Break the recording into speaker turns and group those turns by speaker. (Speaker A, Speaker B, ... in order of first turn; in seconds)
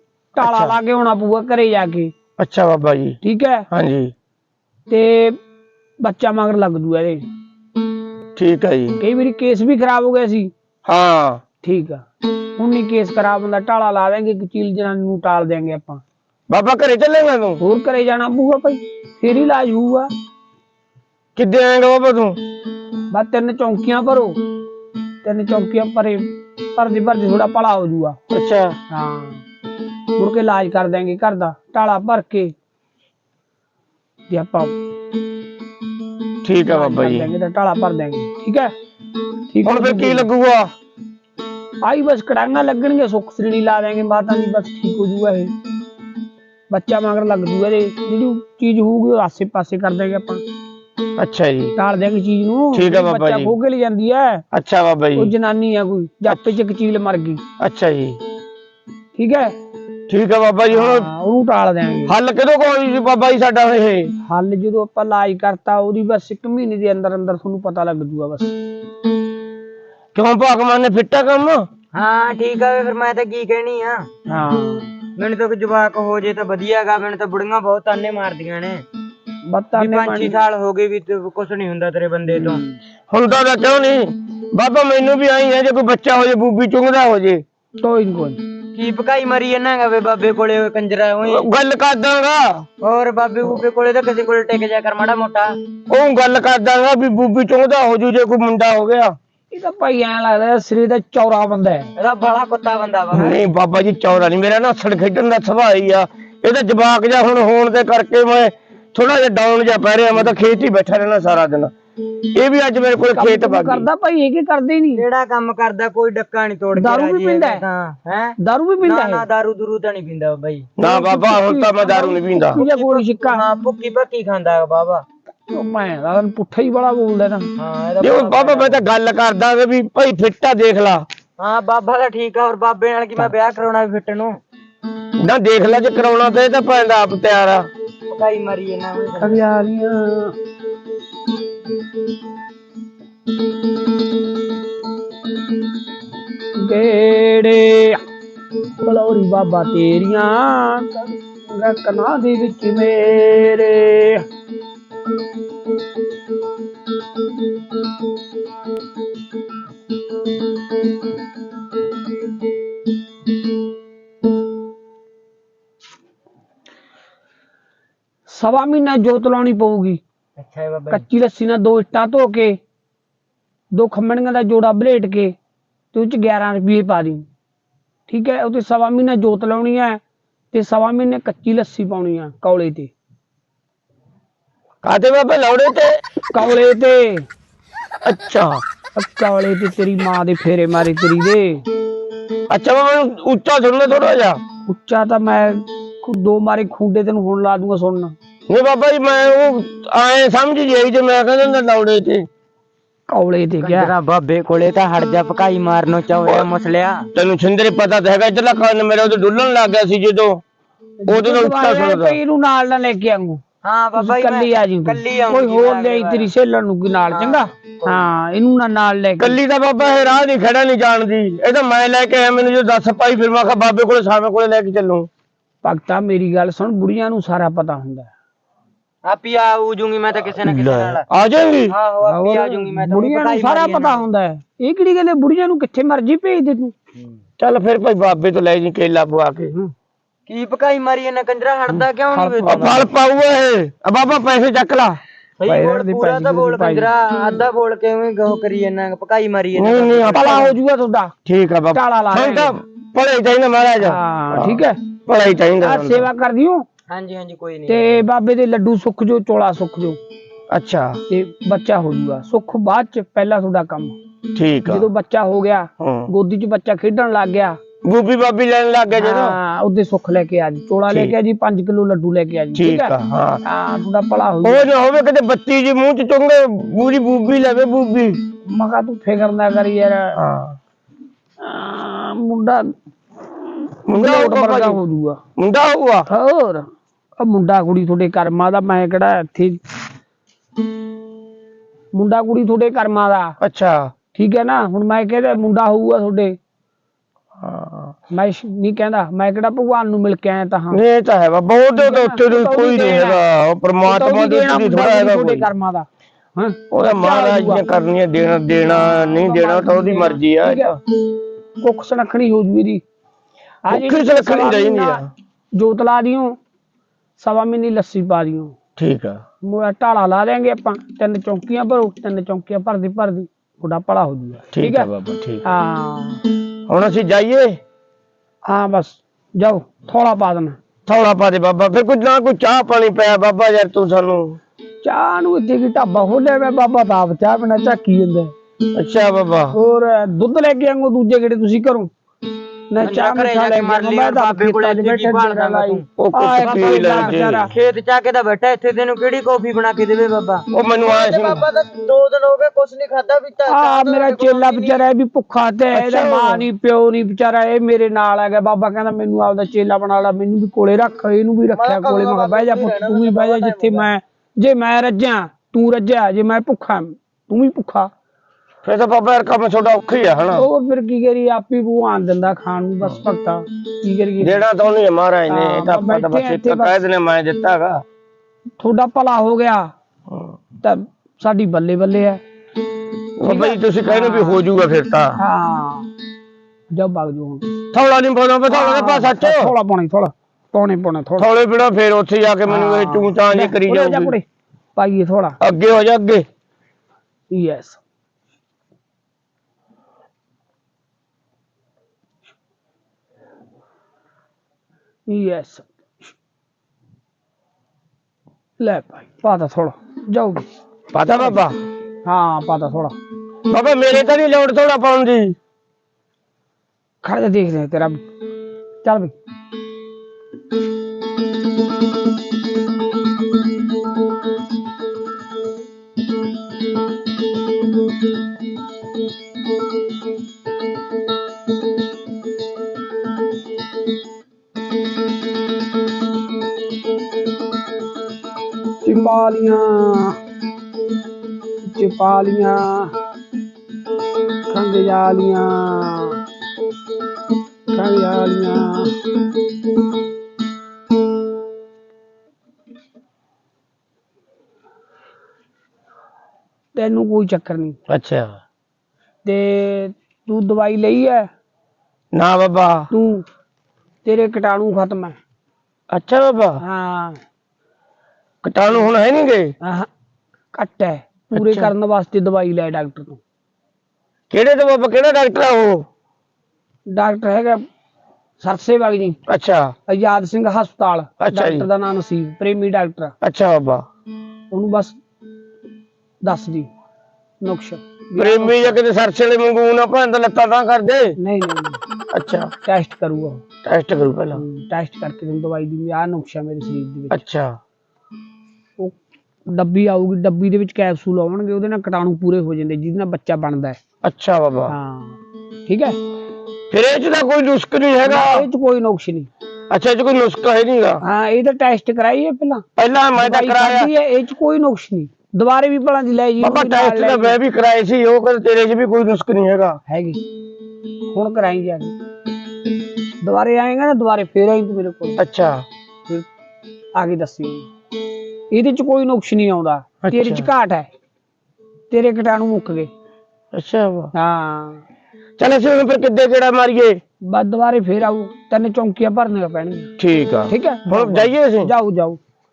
Speaker A: 0.3-2.1, 3.2-3.6, 4.9-5.4, 6.0-7.2, 9.0-10.5, 11.6-12.0, 12.6-16.0, 17.6-20.1, 23.1-24.4, 25.2-28.2, 28.9-29.4, 30.1-32.5, 34.3-34.7, 36.7-38.7, 39.5-40.2, 41.8-45.5, 46.7-50.4, 51.8-54.4, 55.1-57.4, 59.1-59.5, 60.7-62.1, 64.2-68.5, 74.3-74.9, 79.5-80.4, 82.3-82.7, 87.8-88.4, 99.5-101.9, 113.1-115.0, 116.8-117.6, 118.4-119.2, 120.8-123.4, 125.5-127.5, 139.2-140.3, 146.6-148.0, 148.8-154.2, 168.3-170.0, 170.9-172.6, 173.7-175.3, 175.9-177.2, 178.1-180.0, 180.5-182.9, 186.3-187.2, 188.9-191.6, 194.7-198.1, 203.1-203.9, 211.0-213.4, 214.0-219.4, 225.6-228.1, 232.0-236.7, 241.7-242.8, 245.4-246.9, 250.1-251.1, 251.7-252.5, 253.8-254.8, 255.6-256.6, 257.7-260.0, 261.1-263.9, 264.7-267.6, 269.0-272.9, 273.4-274.7, 278.4-280.2, 281.4-282.7, 283.4-285.2, 286.1-286.6, 287.2-289.6, 291.9-293.4, 294.1-296.4, 298.1-300.8, 301.8-303.2, 303.8-307.6, 308.6-310.7, 311.6-312.8, 313.6-315.0, 315.5-316.4, 317.2-318.5, 319.4-324.9, 325.4-326.2, 328.4-330.6, 334.8-338.3, 339.5-341.9, 342.7-347.5, 353.5-367.9, 370.3-374.4, 375.3-376.8, 378.6-379.7, 380.6-382.2, 383.2-384.4, 385.2-385.9, 386.7-387.5, 388.5-391.3, 392.4-394.2, 394.8-395.4, 397.3-397.8, 405.1-406.1, 408.6-410.5, 412.0-412.9, 417.0-418.0, 418.8-419.1, 438.8-440.1, 441.7-442.9, 444.5-446.2, 447.7-448.9, 456.7-457.8, 459.2-461.3, 462.9-463.2, 464.0-465.2, 466.6-467.2, 469.6-469.9, 470.5-473.2, 476.9-477.6, 478.4-479.2, 479.9-483.1, 484.5-485.0, 486.2-486.7, 487.4-488.8, 491.2-491.8, 492.6-493.4, 494.3-497.2, 499.5-503.8, 504.7-506.0, 508.0-509.3, 511.0-512.6, 513.2-517.4, 519.9-520.2, 521.1-521.9, 523.2-525.2, 527.0-527.7, 528.5-530.9, 531.9-532.9, 534.1-534.8, 537.2-539.9, 540.5-542.2
Speaker B: 0.4-0.8, 2.4-3.2, 3.7-4.1, 8.3-9.0, 10.8-11.4, 16.5-17.6, 21.4-22.4, 28.3-28.7, 36.4-37.3, 39.6-40.7, 51.2-51.7, 52.7-53.5, 54.5-55.3, 57.6-58.2, 60.1-61.1, 62.1-64.1, 70.1-71.6, 83.1-87.4, 91.2-92.7, 95.9-99.2, 103.1-111.7, 112.3-113.8, 120.8-122.6, 128.0-131.1, 135.2-137.7, 184.8-185.9, 188.0-188.6, 192.5-194.4, 198.5-202.2, 207.1-210.4, 211.1-212.2, 219.2-225.1, 230.4-231.7, 237.4-239.5, 242.4-245.0, 249.5-250.5, 251.2-256.1, 260.5-261.0, 264.3-264.9, 265.8-266.1, 267.8-269.4, 270.9-271.1, 272.5-273.4, 274.4-278.2, 280.1-280.6, 283.9-284.8, 285.4-286.1, 293.4-293.9, 297.4-297.9, 300.7-305.5, 306.7-310.7, 313.7-315.1, 318.8-319.2, 324.5-325.4, 326.7-327.6, 330.9-334.4, 338.7-339.5, 346.0-347.5, 350.5-351.4, 355.7-356.4, 368.6-370.5, 374.2-377.8, 380.1-380.3, 383.2-385.2, 387.7-389.5, 391.2-394.1, 395.4-396.2, 410.9-411.6, 413.5-415.4, 457.9-458.4, 462.1-462.9, 465.9-466.6, 468.4-469.5, 471.3-471.7, 474.3-475.8, 479.3-479.7, 481.2-481.7, 483.2-483.8, 488.2-491.1, 492.1-492.5, 493.6-494.4, 497.1-497.6, 504.0-504.7, 506.7-508.4, 509.7-511.0, 512.8-513.9, 516.4-519.8, 525.2-525.6, 530.0-530.5, 533.5-534.1, 535.4-537.0, 540.0-541.7
Speaker C: 71.9-74.0, 75.2-78.8, 79.7-82.6, 88.7-91.5, 92.8-95.5, 102.0-103.4, 114.9-120.7, 122.5-125.0, 127.6-128.8, 131.4-134.4, 138.1-139.4, 170.4-171.0, 203.6-207.0, 213.6-216.3, 217.1-218.0, 229.0-231.1, 231.7-234.0, 240.3-242.9, 245.4-250.5, 256.9-258.0, 342.8-345.8, 346.4-354.9, 361.5-363.9